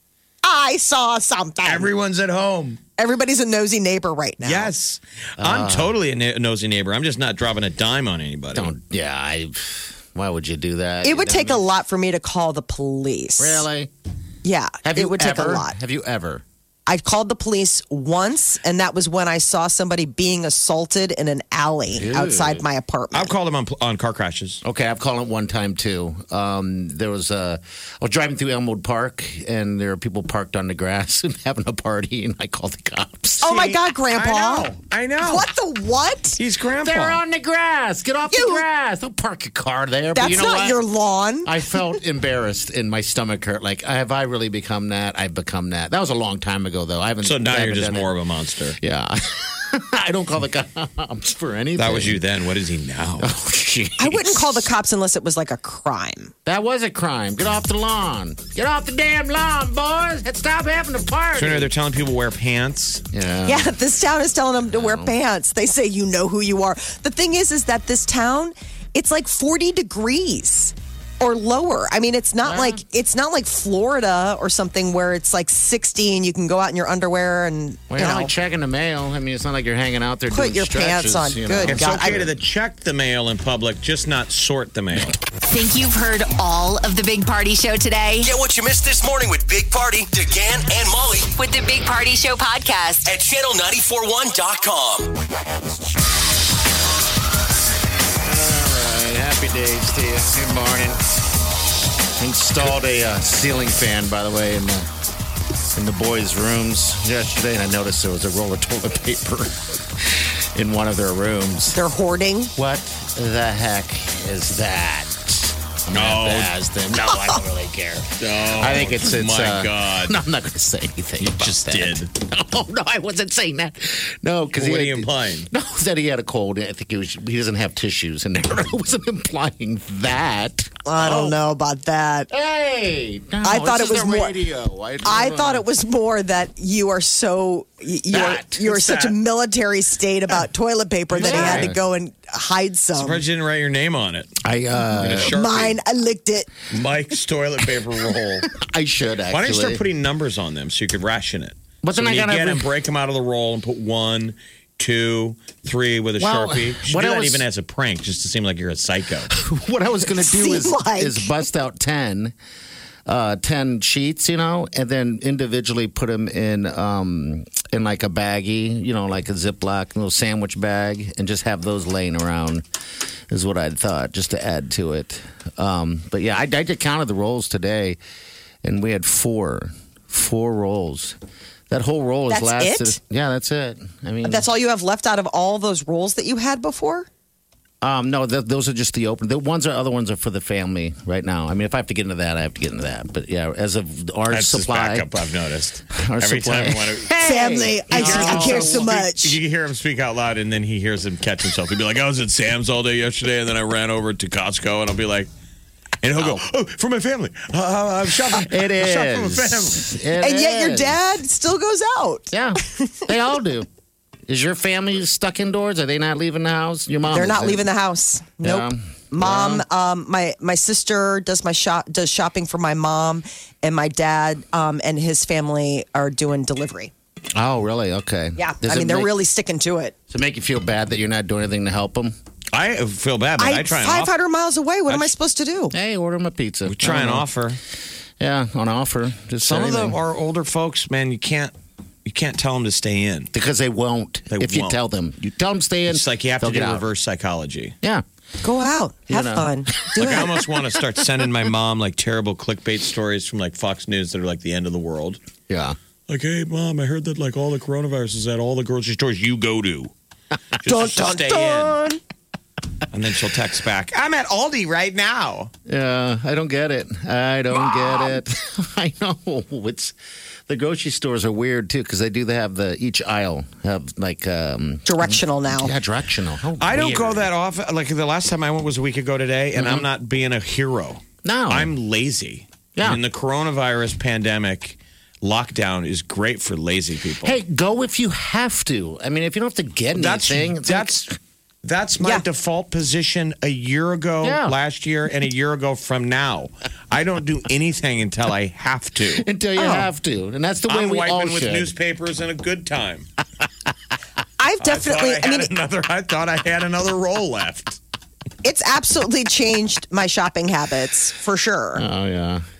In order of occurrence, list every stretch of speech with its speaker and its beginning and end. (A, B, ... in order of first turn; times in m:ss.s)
0:00.4-0:01.9 A
0:01.6-0:02.8 B
0:03.0-0:04.7 A
0:04.4-0:08.7 B
0:05.4-0:05.9 C
0:08.5-0:11.6 C
0:11.0-0:13.6 A
0:13.4-0:13.9 C
0:14.4-0:15.7 A
0:14.8-0:16.4 C
0:16.9-0:23.3 A
0:21.9-0:22.6 C
0:23.1-0:24.6 B
0:24.6-0:33.5 C
0:33.4-0:34.7 A
0:33.4-0:35.5 B
0:35.2-0:36.4 A
0:36.4-0:37.2 B
0:36.8-0:40.8 C
0:38.3-0:38.6 A
0:40.1-0:41.5 A
0:41.4-0:48.1 C
0:47.2-0:48.8 B
0:48.8-0:52.2 C
0:51.8-0:53.3 B
0:53.2-0:54.7 C
0:54.0-0:56.3 A
0:56.4-1:01.7 C
1:01.4-1:03.0 B
1:03.1-1:03.7 C
1:03.5-1:18.3 A
1:04.7-1:05.1 C
1:12.4-1:12.8 C
1:17.9-1:22.3 C
1:20.3-1:22.2 A
1:21.7-1:25.2 B
1:25.4-1:28.3 D
1:28.2-1:31.3 E
1:31.3-1:33.1 D
1:33.0-1:35.1 E
1:38.2-1:41.1 C
1:42.2-1:44.9 C
1:45.7-1:51.8 C
1:51.7-1:52.5 A
1:52.6-2:11.4 C
1:55.9-1:56.5 B
1:58.2-2:00.2 B
2:01.2-2:02.1 B
2:04.5-2:05.5 B
2:10.8-2:12.3 A
2:12.3-2:15.6 C
2:13.4-2:14.4 A
2:15.0-2:23.2 A
2:18.1-2:18.6 C
2:18.6-2:19.1 B
2:21.1-2:21.8 C
2:21.2-2:21.7 B
2:23.0-2:24.3 B
2:24.4-2:25.3 C
2:25.0-2:25.8 B
2:25.2-2:26.5 A
2:26.7-2:28.5 B
2:28.5-2:29.8 C
2:29.3-2:39.3 B
2:31.8-2:32.7 C
2:36.2-2:37.4 C
2:39.3-2:42.3 C
2:40.0-2:41.4 A
2:43.0-2:52.6 C
2:53.3-2:58.0 C
2:58.6-3:01.2 C
3:01.7-3:04.5 C
3:02.3-3:03.0 A
3:04.2-3:07.1 A
3:07.8-3:15.1 C
3:14.3-3:17.1 B
3:15.9-3:18.9 C
3:17.2-3:19.4 A
3:17.9-3:25.3 B
3:26.0-3:29.8 B
3:28.4-3:31.0 C
3:30.2-3:33.0 A
3:32.3-3:33.7 C
3:34.3-3:37.7 C
3:37.1-3:46.9 A
3:38.4-3:39.6 C
3:47.3-3:49.1 C
3:48.4-3:49.9 A
3:50.1-3:52.1 C
3:52.5-3:54.1 B
3:53.4-3:55.7 A
3:54.9-3:55.1 B
3:55.7-3:57.3 C
3:56.6-3:57.6 B
3:58.2-4:00.0 C
3:59.4-4:01.5 B
4:02.0-4:03.3 B
4:03.3-4:06.8 C
4:04.3-4:04.8 B
4:05.9-4:07.7 B
4:08.4-4:10.3 A
4:09.1-4:10.2 C
4:10.0-4:15.2 B
4:15.5-4:15.8 C
4:16.1-4:19.9 B
4:20.6-4:21.8 B
4:20.6-4:22.0 A
4:22.9-4:25.5 B
4:25.6-4:29.9 C
4:30.5-4:37.3 C
4:34.8-4:35.7 A
4:36.6-4:47.4 B
4:39.6-4:39.8 C
4:41.2-4:41.7 C
4:47.2-4:51.1 C
4:49.9-4:59.2 B
4:54.2-4:54.6 C
4:59.1-5:01.7 C
4:59.6-4:59.9 A
5:00.7-5:03.1 B
5:04.4-5:05.5 A
5:04.6-5:07.8 B
5:08.4-5:11.8 A
5:11.8-5:12.4 C